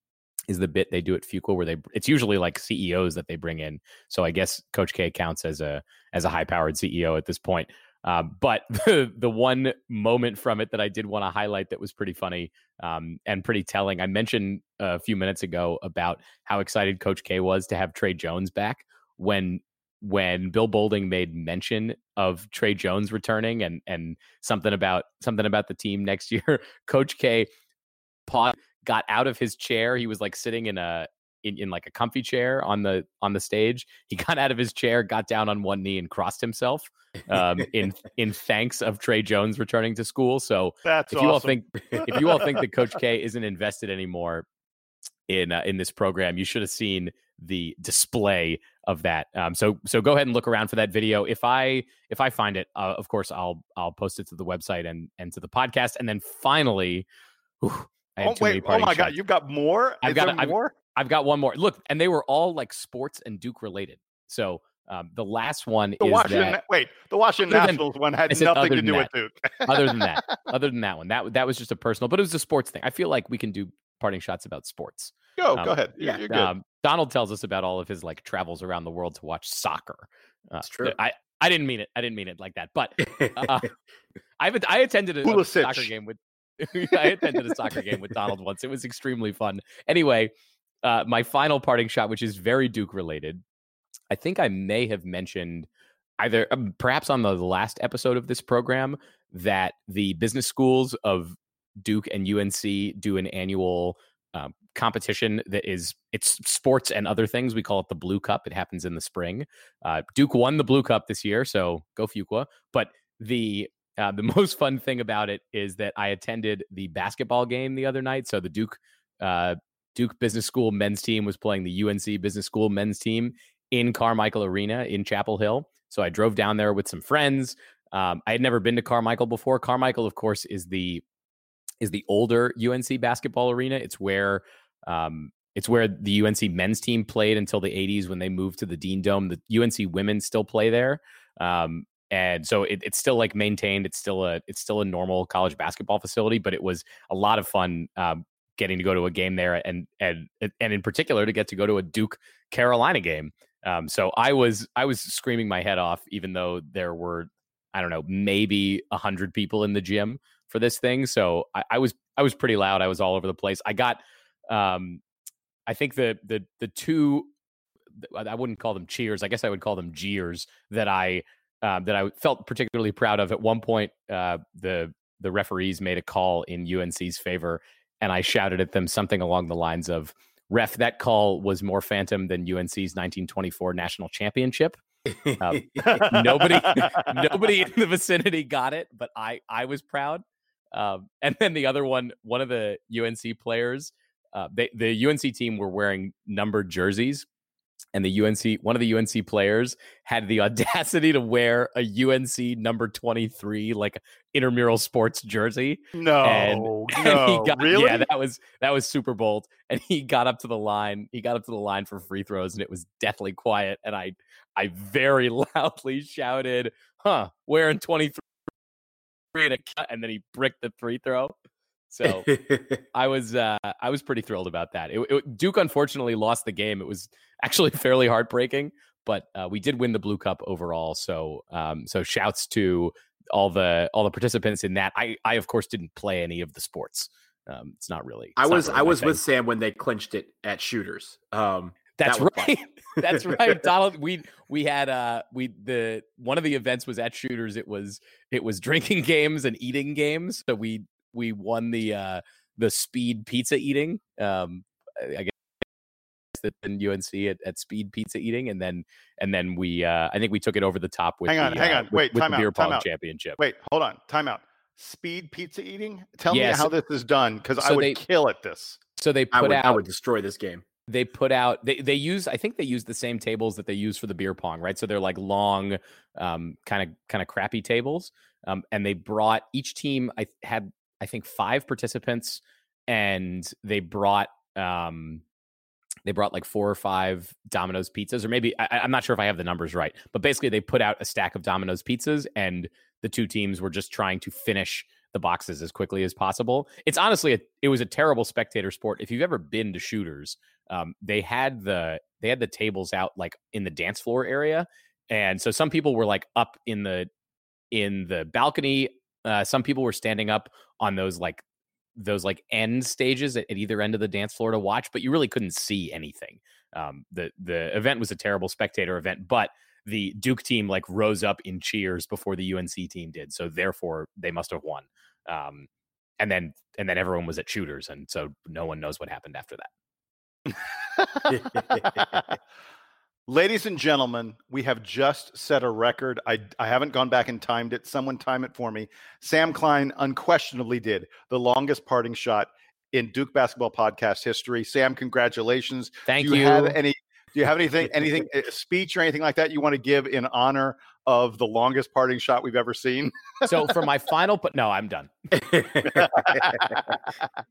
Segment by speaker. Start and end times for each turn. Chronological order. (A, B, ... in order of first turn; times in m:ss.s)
0:00.5-0:27.5 A
0:28.3-0:44.4 A
0:40.8-0:41.6 B
0:42.1-0:42.6 B
0:45.3-0:57.0 A
0:57.6-0:59.1 A
0:58.2-1:00.7 B
1:00.0-1:06.6 A
1:06.0-1:10.4 B
1:07.5-1:09.1 A
1:09.6-1:23.7 A
1:15.4-1:16.5 B
1:20.6-1:21.0 C
1:23.2-1:23.5 C
1:24.4-1:30.3 A
1:25.2-1:25.9 B
1:30.8-1:33.4 A
1:34.1-1:35.7 A
1:36.2-2:11.0 A
2:11.8-2:44.0 A
2:44.5-2:45.0 A
2:45.7-2:47.3 A
2:48.0-3:04.8 A
3:05.1-3:06.0 C
3:05.4-3:10.2 A
3:05.8-3:07.2 B
3:10.7-3:17.2 A
3:17.9-3:38.2 A
3:25.9-3:28.1 B
3:39.3-3:41.3 A
3:41.9-3:42.3 A
3:42.2-3:42.8 C
3:42.9-3:59.2 A
3:58.4-4:03.6 C
4:02.0-4:15.3 A
4:16.3-4:23.4 A
4:21.3-4:22.8 B
4:23.4-4:28.8 B
4:26.3-4:26.7 A
4:27.6-4:28.0 A
4:29.0-4:29.8 A
4:29.3-4:30.6 C
4:30.9-4:45.2 A
4:46.0-5:07.1 A
5:07.7-5:11.4 A
5:12.0-5:25.7 A
5:26.2-5:29.7 A
5:30.5-5:32.4 B
5:31.3-5:31.9 C
5:33.3-5:53.7 B
5:46.0-5:46.8 A
5:53.4-5:55.1 A
5:55.4-5:56.5 C
5:55.8-5:57.2 B